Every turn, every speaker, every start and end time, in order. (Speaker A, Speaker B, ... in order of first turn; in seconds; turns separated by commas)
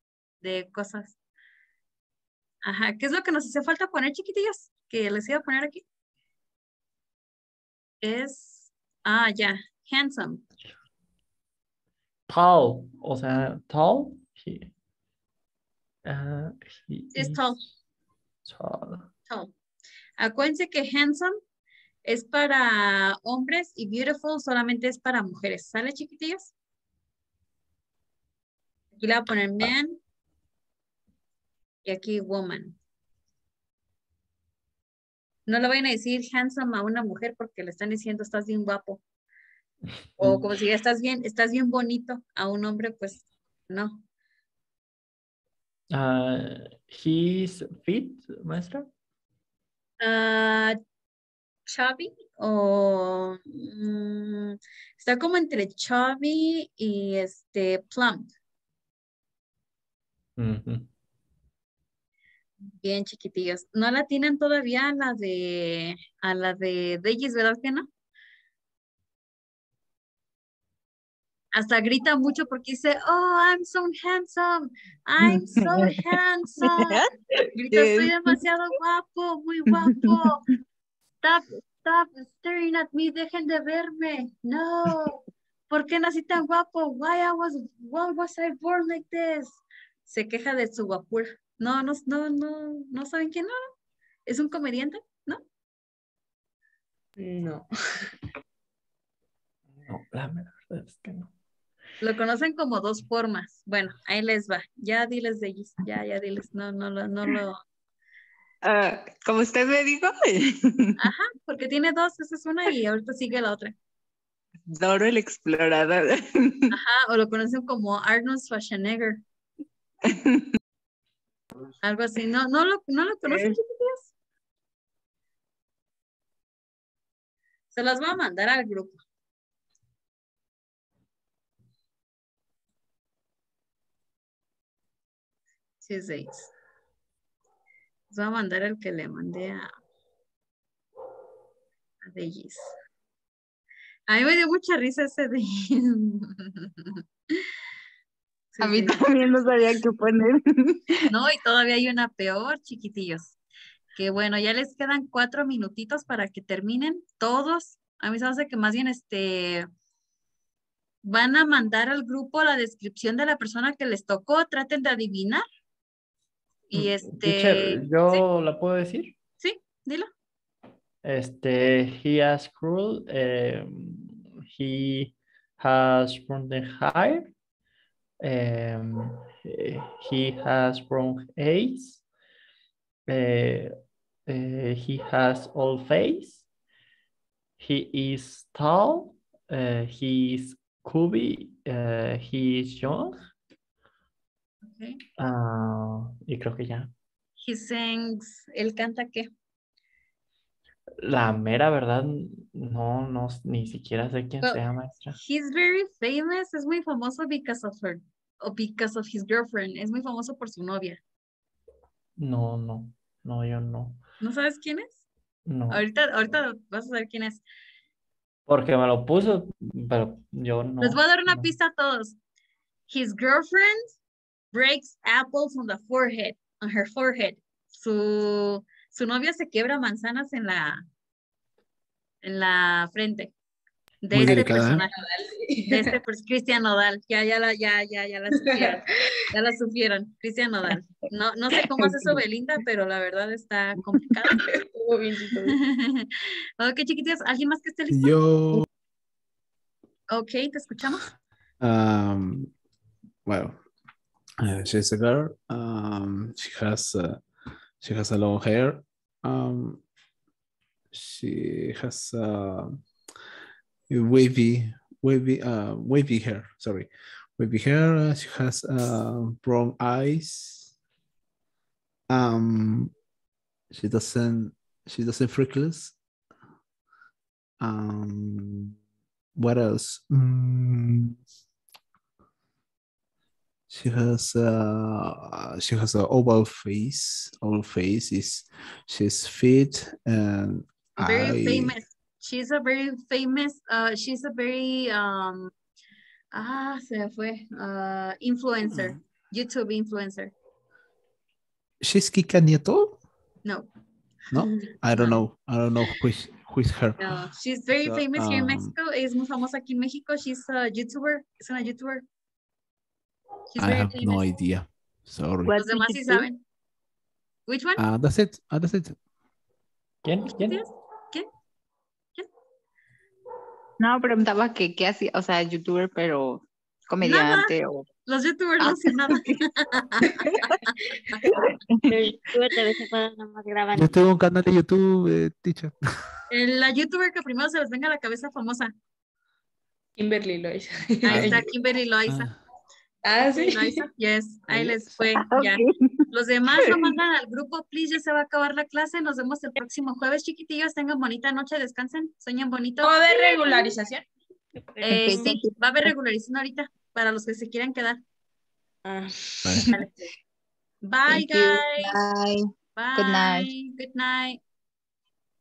Speaker A: 0.4-1.1, Speaker A: 2.6-5.8, Speaker A: 8.0-10.4, Speaker B: 12.3-14.7, Speaker B: 16.0-17.4, Speaker A: 17.1-17.6, Speaker B: 18.4-19.1, Speaker A: 20.2-21.4, Speaker A: 22.1-26.5, Speaker A: 28.9-30.0, Speaker A: 31.9-32.8, Speaker A: 35.5-39.0, Speaker B: 40.2-40.5, Speaker A: 40.2-44.0, Speaker B: 45.9-48.9, Speaker A: 50.0-50.8, Speaker A: 51.7-58.3, Speaker B: 60.4-60.9, Speaker A: 62.8-67.9, Speaker A: 71.5-77.0, Speaker C: 75.2-77.1, Speaker A: 77.5-80.5, Speaker C: 77.7-78.4, Speaker C: 79.7-80.3, Speaker A: 81.2-93.6, Speaker A: 94.3-95.4, Speaker D: 97.2-98.1, Speaker B: 99.8-101.3, Speaker A: 102.0-107.6, Speaker C: 108.6-111.0, Speaker A: 111.0-113.7, Speaker C: 114.7-116.7, Speaker A: 116.7-119.2, Speaker C: 120.0-120.5, Speaker A: 121.8-124.1, Speaker C: 123.3-123.6, Speaker A: 127.7-129.0, Speaker A: 135.8-136.5, Speaker A: 138.1-139.7, Speaker A: 142.0-142.7, Speaker A: 144.1-147.0, Speaker A: 148.5-149.8, Speaker C: 148.6-151.0, Speaker A: 151.1-153.3, Speaker A: 153.9-159.7, Speaker A: 161.0-165.4, Speaker A: 166.7-168.2, Speaker B: 166.7-169.1, Speaker A: 169.4-170.1, Speaker B: 171.0-177.3, Speaker B: 178.2-182.0, Speaker B: 183.1-183.7, Speaker B: 184.3-186.4, Speaker B: 187.6-193.2, Speaker A: 194.7-195.0, Speaker B: 195.2-196.9, Speaker A: 197.4-199.3, Speaker B: 201.0-205.2, Speaker A: 205.2-211.0, Speaker B: 212.2-214.0, Speaker A: 214.2-215.0, Speaker B: 215.5-215.8, Speaker A: 215.7-217.4, Speaker B: 218.5-221.5, Speaker A: 220.8-222.2, Speaker A: 222.9-223.9, Speaker A: 224.5-230.8, Speaker A: 232.2-233.3, Speaker A: 234.0-235.0, Speaker E: 234.1-234.8, Speaker D: 234.3-235.9, Speaker A: 235.7-244.5, Speaker D: 238.4-239.2, Speaker D: 244.4-245.6, Speaker A: 245.5-248.6, Speaker E: 247.9-248.7, Speaker A: 250.1-251.1, Speaker E: 251.6-252.5, Speaker E: 253.2-253.6, Speaker E: 254.4-257.2, Speaker E: 257.8-259.8, Speaker E: 260.9-262.8, Speaker E: 263.9-270.7, Speaker E: 272.1-272.9, Speaker E: 273.7-275.9, Speaker E: 277.6-278.8, Speaker E: 279.4-281.2, Speaker E: 283.7-291.8, Speaker A: 291.0-295.5, Speaker A: 296.3-300.3, Speaker E: 301.8-303.0, Speaker E: 304.3-307.3, Speaker A: 304.4-305.2, Speaker A: 307.0-312.0, Speaker E: 307.8-308.8, Speaker A: 313.5-314.2, Speaker E: 313.6-315.5, Speaker C: 315.5-316.3, Speaker A: 315.6-316.4, Speaker A: 317.5-317.8, Speaker E: 317.8-319.0, Speaker B: 320.0-320.6, Speaker A: 320.2-321.2, Speaker C: 323.8-327.9, Speaker A: 327.0-327.5, Speaker A: 328.1-331.2, Speaker C: 328.6-329.4, Speaker C: 330.2-330.6, Speaker C: 331.2-332.0, Speaker F: 331.9-334.0, Speaker E: 333.7-336.1, Speaker A: 336.3-338.7, Speaker D: 340.0-341.4, Speaker A: 341.0-342.3, Speaker E: 341.1-341.4, Speaker E: 342.1-342.4, Speaker D: 343.0-343.9, Speaker A: 343.3-353.6, Speaker E: 344.5-344.9, Speaker C: 345.1-346.1, Speaker C: 346.6-346.9, Speaker D: 352.8-354.0, Speaker F: 354.6-355.4, Speaker C: 354.8-355.9, Speaker A: 354.9-358.0, Speaker D: 358.9-359.9, Speaker E: 359.4-359.7, Speaker A: 360.8-361.9, Speaker C: 361.1-363.5, Speaker A: 362.8-364.4